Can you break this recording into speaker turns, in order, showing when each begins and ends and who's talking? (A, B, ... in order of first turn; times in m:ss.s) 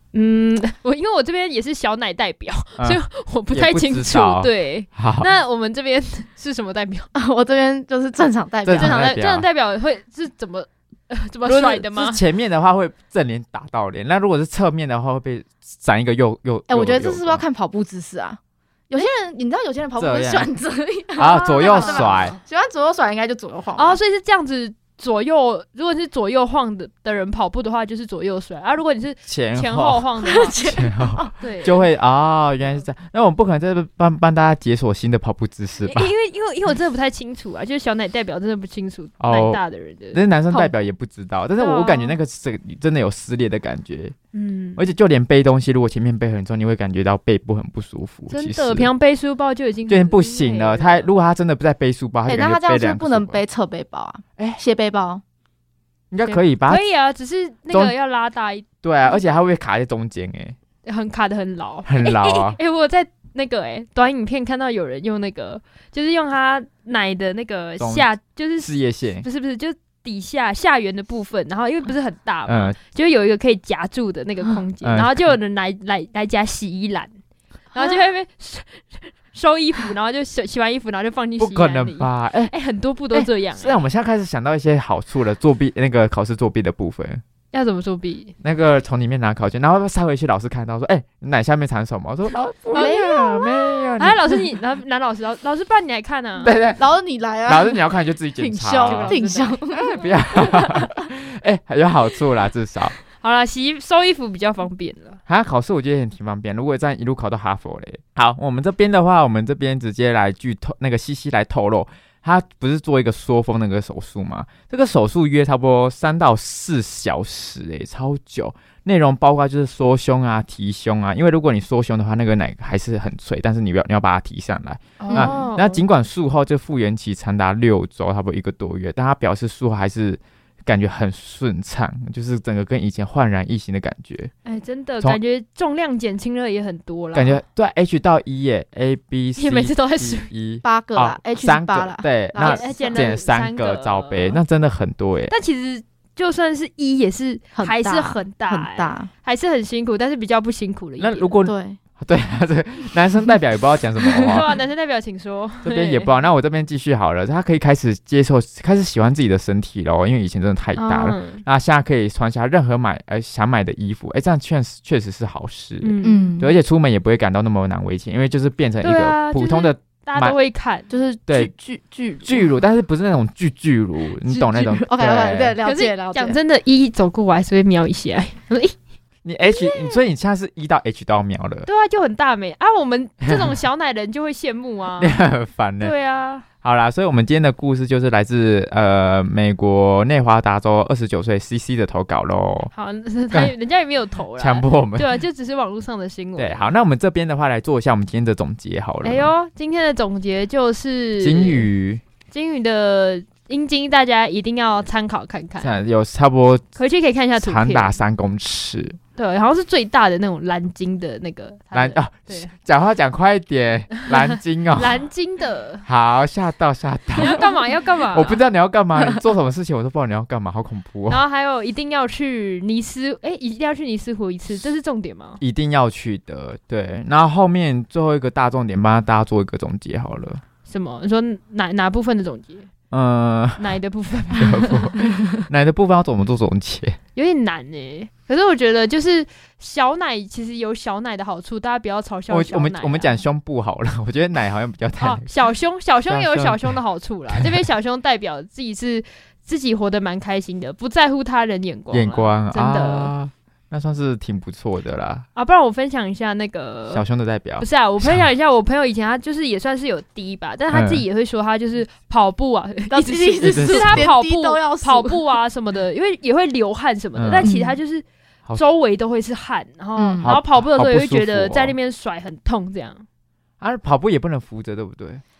0:00.1-0:07.1 A
0:03.5-0:05.3 B
0:07.1-0:09.0 C
0:08.6-0:09.4 B
0:08.8-0:12.2 A
0:11.4-0:17.4 B
0:16.7-0:18.4 C
0:18.9-0:24.0 C
0:20.0-0:20.5 B
0:21.2-0:22.4 B
0:21.6-0:22.4 A
0:23.7-0:30.7 A
0:29.3-0:30.0 B
0:30.2-0:31.3 C
0:30.6-0:36.1 B
0:31.4-0:31.9 A
0:35.8-0:40.7 A
0:39.2-0:39.6 B
0:40.1-0:44.1 B
0:41.6-0:42.2 A
0:44.3-0:44.8 A
0:44.8-0:48.9 B
0:48.3-0:51.1 A
0:49.9-0:53.4 B
0:52.3-0:55.2 C
0:56.1-0:56.8 B
0:56.3-0:58.6 A
0:58.8-1:00.5 B
1:00.8-1:17.1 A
1:01.8-1:02.6 B
1:07.8-1:08.1 B
1:08.6-1:09.2 B
1:12.5-1:12.8 B
1:14.8-1:15.3 B
1:17.7-1:23.8 A
1:21.4-1:22.5 B
1:23.1-1:27.2 B
1:27.5-1:28.3 A
1:28.4-1:34.4 B
1:32.7-1:33.0 A
1:32.7-1:33.8 C
1:34.0-1:36.5 A
1:36.4-1:36.8 B
1:36.8-1:37.8 C
1:37.4-1:42.9 B
1:38.4-1:40.9 C
1:38.8-1:40.6 A
1:43.1-1:45.2 A
1:45.3-2:14.3 B
2:05.0-2:05.8 A
2:05.1-2:05.5 C
2:14.4-2:17.4 A
2:17.1-2:25.3 B
2:19.4-2:20.3 A
2:20.6-2:23.1 C
2:22.4-2:24.4 A
2:25.3-2:31.3 A
2:27.6-2:29.1 C
2:31.0-2:34.4 B
2:31.4-2:31.8 C
2:34.2-2:36.1 A
2:35.6-2:50.4 B
2:40.8-2:41.4 A
2:45.8-2:46.3 A
2:46.0-2:46.5 C
2:48.8-2:50.9 A
2:50.9-2:52.5 C
2:51.3-2:51.5 B
2:52.2-2:55.6 B
2:54.3-2:56.4 C
2:55.6-2:58.7 A
2:59.2-3:01.7 B
2:59.6-2:59.9 A
3:01.6-3:05.2 A
3:03.2-3:03.5 B
3:05.0-3:05.9 B
3:05.8-3:06.4 A
3:06.6-3:12.7 B
3:12.7-3:16.7 A
3:14.4-3:15.1 B
3:16.4-3:19.3 B
3:19.0-3:21.7 A
3:21.2-3:22.0 B
3:22.3-3:25.8 A
3:25.6-3:26.6 B
3:26.8-3:28.0 A
3:27.4-3:29.0 B
3:29.2-3:32.5 A
3:31.7-3:35.0 B
3:34.1-3:35.8 A
3:35.8-3:37.5 B
3:37.2-3:38.4 A
3:38.1-3:41.2 B
3:41.1-3:45.4 A
3:45.4-3:50.4 B
3:50.7-3:52.7 A
3:52.9-3:53.7 B
3:53.6-3:55.0 A
3:54.2-3:57.0 B
3:57.2-4:03.1 A
4:02.3-4:05.2 B
4:05.0-4:13.1 A
4:06.1-4:06.7 B
4:11.9-4:15.2 B
4:15.3-4:17.0 A
4:16.9-4:18.2 B
4:17.6-4:28.0 A
4:20.7-4:21.0 B
4:22.9-4:25.4 C
4:23.4-4:24.1 B
4:27.2-4:27.5 B
4:27.4-4:27.8 C
4:28.6-4:33.0 A
4:30.0-4:30.2 C
4:30.2-4:31.7 B
4:33.6-4:35.2 B